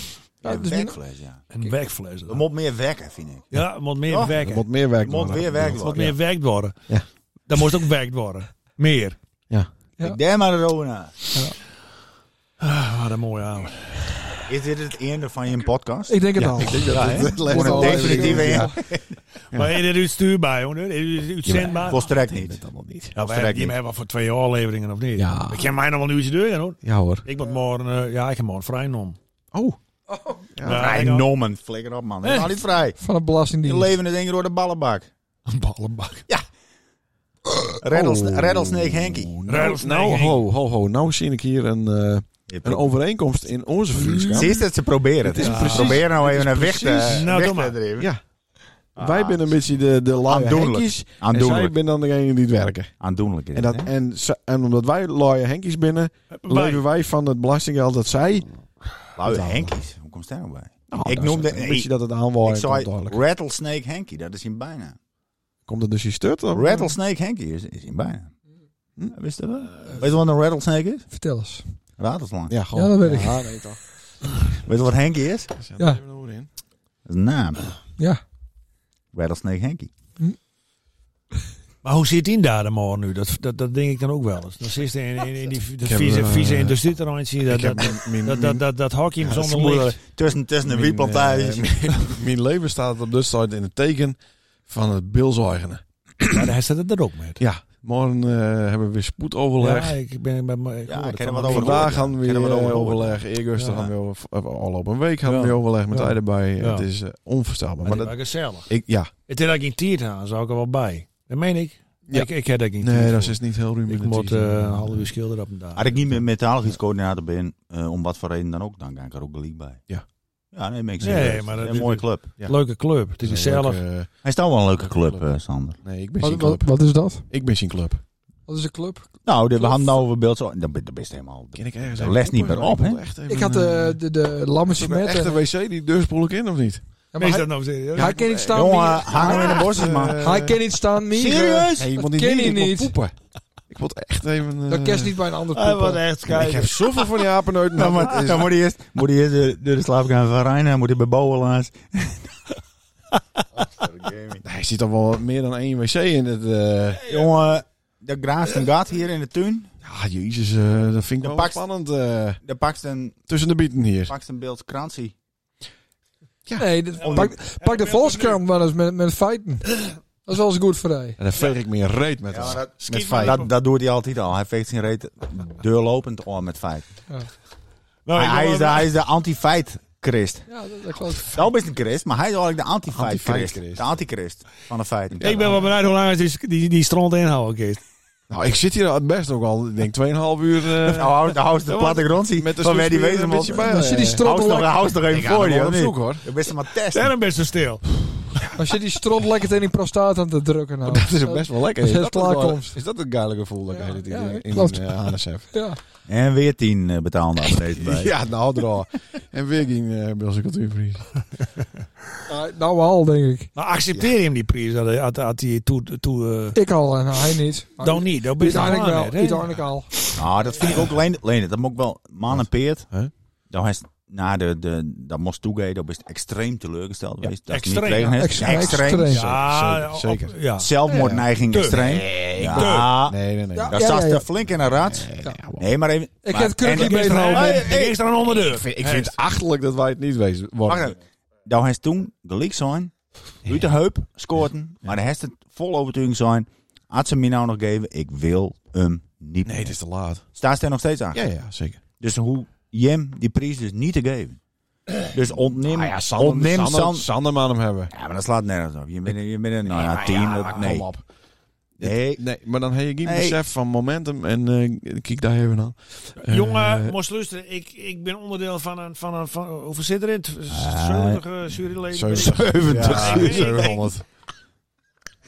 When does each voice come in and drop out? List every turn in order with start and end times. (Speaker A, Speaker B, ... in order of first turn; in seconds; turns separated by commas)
Speaker A: 0.4-1.4, Speaker B: 0.4-1.0, Speaker C: 1.5-2.4, Speaker A: 2.3-3.5, Speaker C: 3.5-4.7, Speaker A: 4.1-4.3, Speaker D: 4.3-6.2, Speaker A: 5.0-6.1, Speaker C: 5.8-6.8, Speaker C: 7.5-9.2, Speaker A: 10.0-11.2, Speaker C: 12.6-14.2, Speaker A: 14.5-16.2, Speaker B: 16.1-18.8, Speaker D: 16.4-18.8, Speaker A: 16.8-19.1, Speaker D: 19.5-19.8, Speaker C: 19.5-22.0, Speaker D: 21.4-23.1, Speaker A: 21.9-22.6, Speaker A: 23.2-23.8, Speaker C: 23.2-29.2, Speaker D: 25.2-25.7, Speaker D: 26.8-27.3, Speaker D: 29.5-29.8, Speaker B: 30.1-30.4, Speaker D: 30.6-31.1, Speaker C: 30.6-31.3, Speaker A: 30.6-33.0, Speaker C: 32.2-32.6, Speaker B: 33.0-34.0, Speaker A: 33.6-35.1, Speaker C: 35.5-36.3, Speaker A: 37.8-39.3, Speaker D: 37.9-44.6, Speaker C: 39.5-40.4, Speaker A: 42.5-42.9, Speaker A: 44.3-48.1, Speaker D: 45.2-47.3, Speaker C: 45.4-46.1, Speaker C: 47.0-47.8, Speaker D: 49.0-52.9, Speaker A: 49.0-49.5, Speaker A: 50.2-51.7, Speaker A: 53.0-53.9, Speaker D: 53.5-58.5, Speaker C: 56.3-56.8, Speaker A: 59.2-61.9, Speaker D: 59.2-59.8, Speaker D: 60.9-63.2, Speaker A: 62.4-65.0, Speaker D: 65.7-66.9, Speaker A: 66.5-68.3, Speaker A: 69.1-71.1, Speaker B: 71.1-71.6, Speaker A: 72.0-72.6, Speaker D: 72.5-73.8, Speaker B: 72.7-73.6, Speaker A: 74.6-75.5, Speaker D: 75.6-76.5, Speaker A: 77.1-77.7, Speaker A: 79.1-79.9, Speaker C: 81.8-90.0, Speaker D: 85.8-86.8, Speaker D: 87.4-88.6, Speaker A: 89.3-92.2, Speaker D: 90.6-96.5, Speaker C: 96.3-97.4, Speaker D: 97.4-100.0, Speaker C: 99.6-102.0, Speaker A: 100.9-103.2, Speaker D: 101.5-108.2, Speaker C: 105.2-106.9, Speaker C: 107.8-108.7, Speaker D: 108.7-109.1, Speaker C: 109.3-116.0, Speaker D: 112.1-115.1, Speaker A: 115.8-119.8, Speaker A: 120.5-122.5, Speaker C: 121.0-123.8, Speaker D: 123.2-124.1, Speaker A: 124.2-125.8, Speaker D: 124.8-128.0, Speaker B: 126.2-127.3, Speaker B: 128.5-129.1, Speaker A: 129.2-133.0, Speaker D: 131.5-134.0, Speaker B: 133.3-135.4, Speaker D: 134.7-136.8, Speaker B: 137.1-139.6, Speaker C: 137.2-138.2, Speaker D: 137.9-140.6, Speaker A: 138.5-140.2, Speaker C: 139.2-139.7, Speaker B: 140.2-142.9, Speaker A: 141.1-141.9, Speaker D: 141.8-143.2, Speaker D: 143.7-145.2, Speaker B: 144.7-146.0, Speaker C: 145.5-147.2, Speaker D: 146.3-148.5, Speaker A: 147.7-152.3, Speaker A: 153.6-154.4, Speaker D: 154.4-157.1, Speaker A: 157.1-159.7, Speaker D: 159.8-162.4, Speaker A: 161.2-161.6, Speaker A: 162.4-163.2, Speaker D: 163.3-164.1, Speaker A: 164.1-165.2, Speaker B: 166.6-171.2, Speaker C: 167.0-168.4, Speaker A: 167.0-167.3, Speaker D: 171.2-173.4, Speaker A: 172.3-176.9, Speaker C: 172.8-173.5, Speaker C: 178.1-178.9, Speaker A: 178.2-180.5, Speaker B: 180.5-181.4, Speaker A: 181.2-185.6, Speaker D: 182.9-183.9, Speaker C: 185.2-187.8, Speaker D: 188.3-194.3, Speaker A: 190.8-197.1, Speaker B: 193.5-194.9, Speaker D: 195.1-196.2, Speaker C: 196.9-197.8, Speaker B: 198.6-202.8, Speaker D: 200.9-205.5, Speaker B: 203.7-205.8, Speaker A: 206.1-208.1, Speaker D: 207.6-211.2, Speaker B: 212.3-213.5, Speaker C: 213.6-216.6, Speaker B: 216.6-219.9, Speaker C: 217.8-219.6, Speaker A: 220.2-222.9, Speaker C: 220.6-220.8, Speaker D: 222.3-223.1, Speaker A: 223.5-229.2, Speaker C: 227.5-232.9, Speaker B: 228.2-229.2, Speaker D: 228.4-230.4, Speaker A: 230.6-238.0, Speaker B: 230.9-231.1, Speaker D: 230.9-233.8, Speaker B: 233.5-234.3, Speaker D: 234.8-235.7, Speaker B: 236.2-237.7, Speaker C: 236.6-239.2, Speaker D: 238.3-240.9, Speaker A: 240.7-242.9, Speaker A: 243.4-249.7, Speaker D: 249.4-250.2, Speaker A: 250.4-251.2, Speaker D: 251.1-251.8, Speaker A: 252.0-254.4, Speaker A: 254.9-257.1, Speaker D: 255.7-257.9, Speaker A: 257.9-260.9, Speaker D: 259.7-261.1, Speaker C: 259.9-260.6, Speaker D: 261.8-267.0, Speaker A: 261.8-262.2, Speaker A: 263.0-263.4, Speaker C: 266.3-273.9, Speaker A: 270.5-271.2, Speaker D: 271.9-274.0, Speaker A: 272.1-273.7